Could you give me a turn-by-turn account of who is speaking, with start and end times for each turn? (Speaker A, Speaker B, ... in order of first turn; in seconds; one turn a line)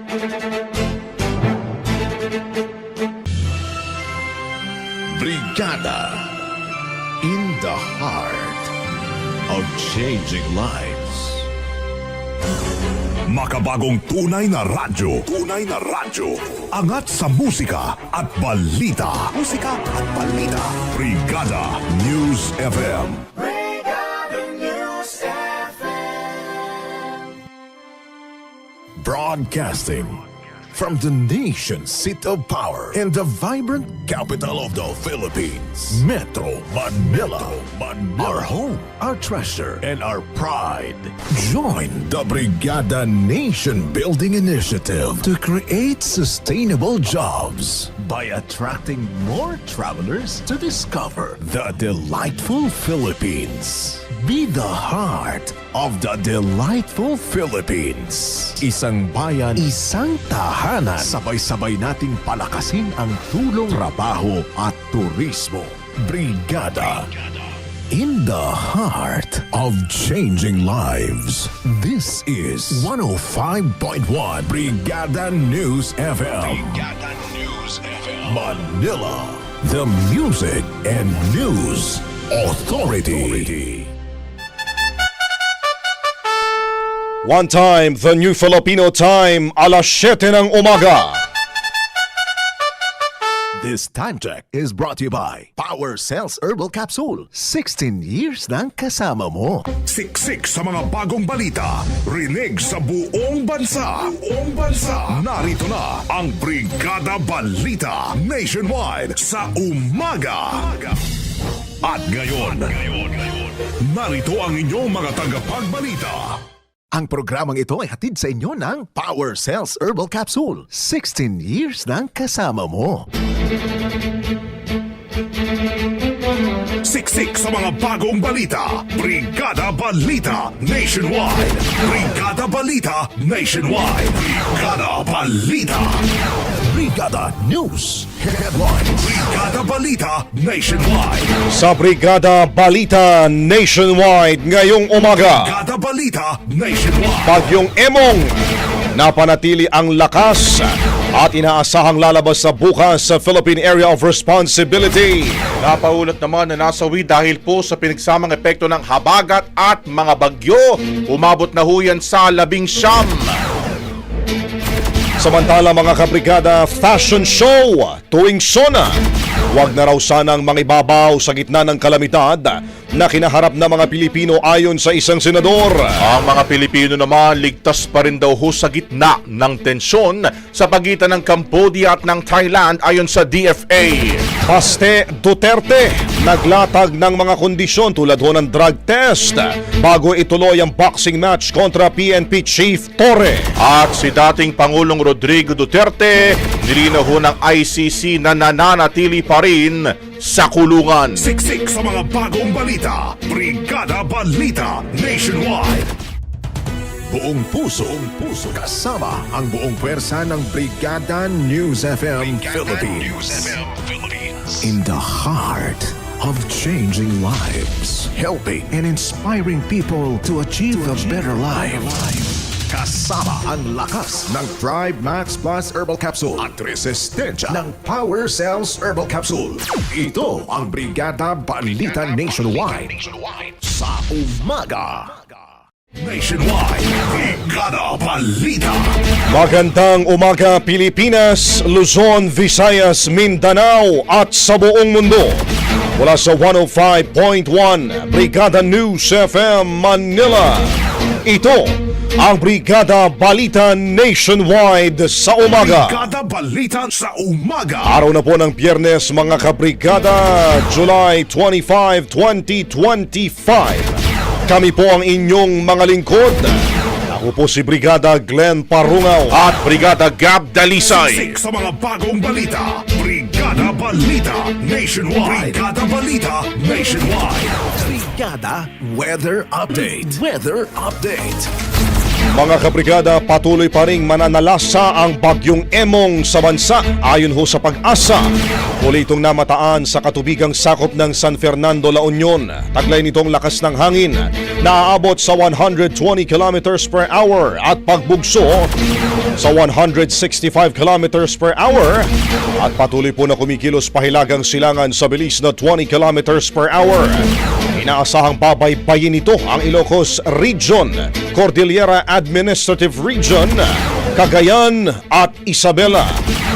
Speaker A: 5.1-6.3
Speaker A: 7.2-8.7
Speaker A: 9.5-11.5
Speaker B: 13.3-23.3
Speaker A: 29.0-67.1
Speaker A: 67.9-83.9
Speaker C: 87.2-91.2
Speaker A: 93.6-99.7
Speaker B: 99.8-110.9
Speaker B: 111.8-116.4
Speaker A: 116.9-123.1
Speaker B: 126.8-136.1
Speaker A: 136.6-139.3
Speaker B: 138.9-141.4
Speaker C: 141.5-145.6
Speaker B: 145.2-147.4
Speaker C: 147.3-148.3
Speaker C: 149.0-155.4
Speaker D: 155.6-163.4
Speaker C: 165.2-168.9
Speaker C: 169.5-175.9
Speaker D: 176.0-184.3
Speaker C: 184.4-193.5
Speaker D: 193.6-201.3
Speaker B: 201.2-205.9
Speaker A: 207.1-235.2
Speaker B: 212.6-213.5
Speaker B: 236.0-239.0
Speaker C: 239.3-250.7
Speaker C: 251.2-256.1
Speaker B: 255.5-257.9
Speaker C: 257.9-264.0
Speaker C: 264.5-266.6
Speaker C: 267.1-269.5
Speaker D: 269.3-271.3
Speaker B: 270.9-277.9
Speaker A: 275.2-275.6
Speaker A: 277.8-281.5
Speaker B: 279.8-280.1
Speaker C: 282.3-288.3
Speaker C: 288.8-298.7
Speaker C: 299.4-316.2